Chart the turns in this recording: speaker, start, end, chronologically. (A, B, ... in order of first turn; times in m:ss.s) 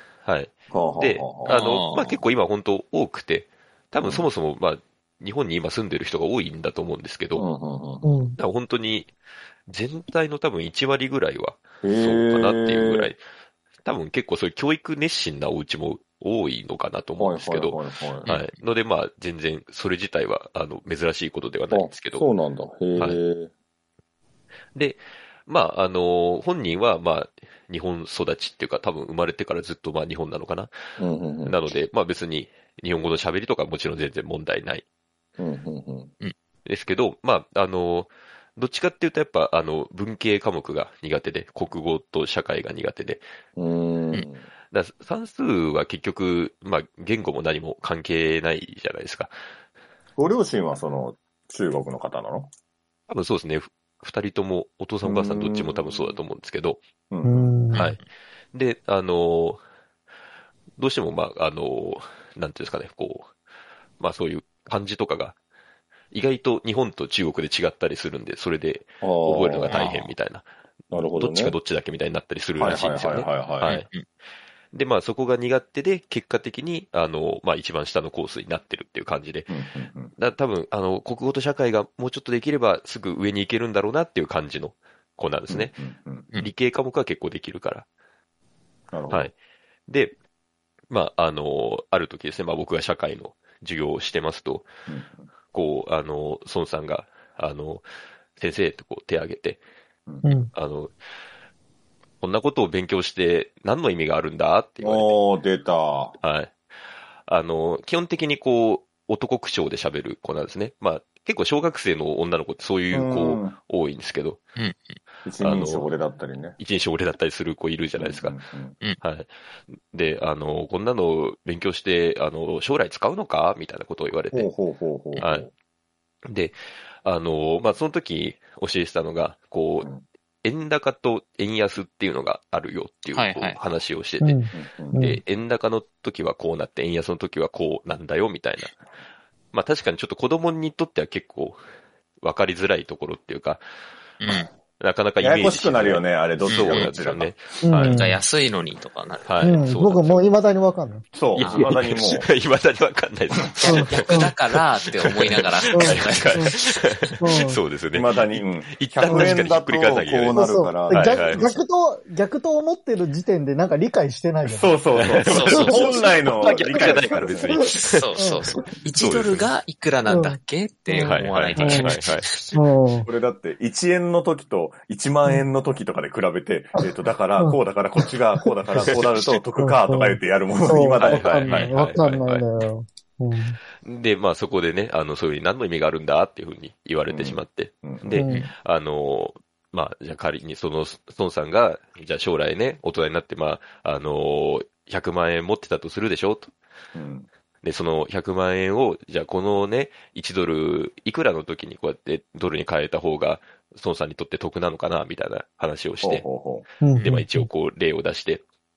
0:00.2-0:07.4 A
0:00.7-0:01.6 B
0:01.4-0:02.2 C
0:04.0-0:04.3 B
0:07.3-0:08.2 B
0:08.0-0:08.4 D
0:08.4-0:09.1 A
0:09.7-0:13.2 A
0:11.8-0:13.1 B
0:13.8-0:22.3 A
0:17.2-0:18.3 B
0:21.7-0:23.5 B
0:23.0-0:23.2 A
0:24.7-0:30.7 A
0:31.0-0:31.6 B
0:31.4-0:34.8 A
0:35.4-0:36.1 B
0:36.6-0:43.2 A
0:43.6-0:44.4 B
0:44.7-0:49.3 A
0:50.2-0:52.5 B
0:53.1-0:56.8 A
0:55.0-0:56.2 B
0:57.1-0:57.5 B
0:57.2-0:57.8 D
0:57.7-0:58.0 C
0:58.5-0:59.6 A
1:00.8-1:03.3 A
1:04.0-1:05.4 A
1:06.1-1:13.8 A
1:09.0-1:09.8 B
1:09.7-1:10.1 C
1:10.9-1:11.6 B
1:12.6-1:13.8 B
1:13.6-1:14.0 C
1:14.7-1:19.5 A
1:19.5-1:20.1 B
1:20.2-1:25.7 A
1:25.5-1:26.3 B
1:26.4-1:27.9 A
1:28.9-1:29.3 B
1:29.9-1:30.1 A
1:30.9-1:34.7 A
1:34.9-1:35.2 B
1:35.5-1:37.8 A
1:38.4-1:39.6 A
1:40.2-1:40.5 D
1:40.5-1:40.9 A
1:42.2-1:45.2 A
1:44.8-1:46.2 B
1:46.2-1:46.5 A
1:47.3-1:54.4 A
1:52.9-1:53.6 B
1:54.6-1:54.9 C
1:55.2-1:56.6 B
1:55.4-1:55.9 A
1:56.6-1:58.4 A
1:58.0-1:58.8 B
1:59.0-1:59.3 A
1:59.9-2:04.5 A
2:04.3-2:05.5 B
2:05.2-2:05.5 A
2:06.3-2:09.9 A
2:10.4-2:14.4 A
2:13.1-2:13.6 C
2:14.2-2:15.2 D
2:14.5-2:15.0 B
2:15.0-2:18.7 A
2:19.5-2:21.6 A
2:22.2-2:23.6 A
2:24.2-2:24.5 C
2:24.8-2:28.0 A
2:25.2-2:27.4 B
2:26.4-2:26.9 C
2:27.6-2:28.2 D
2:27.8-2:29.4 C
2:29.2-2:30.3 A
2:29.4-2:31.0 D
2:31.1-2:32.3 B
2:31.4-2:34.4 A
2:31.4-2:31.7 C
2:33.6-2:36.6 C
2:33.6-2:34.3 D
2:35.0-2:41.5 A
2:35.7-2:36.6 D
2:37.2-2:37.6 D
2:37.9-2:41.6 B
2:39.1-2:39.4 D
2:40.3-2:44.7 D
2:44.5-2:47.5 B
2:45.0-2:48.0 A
2:45.2-2:46.1 C
2:47.7-2:52.6 C
2:48.2-2:48.6 D
2:49.0-2:49.5 A
2:50.1-2:50.4 D
2:50.9-2:52.0 D
2:50.9-2:52.3 A
2:52.5-2:53.1 D
2:53.0-3:01.6 B
2:57.4-2:58.8 D
2:59.6-3:03.6 D
3:01.0-3:02.4 A
3:03.8-3:16.5 A
3:07.1-3:08.2 B
3:08.2-3:08.4 D
3:08.2-3:08.5 C
3:16.9-3:17.3 B
3:17.6-3:26.2 A
3:26.0-3:26.7 B
3:26.8-3:27.5 D
3:27.0-3:28.4 A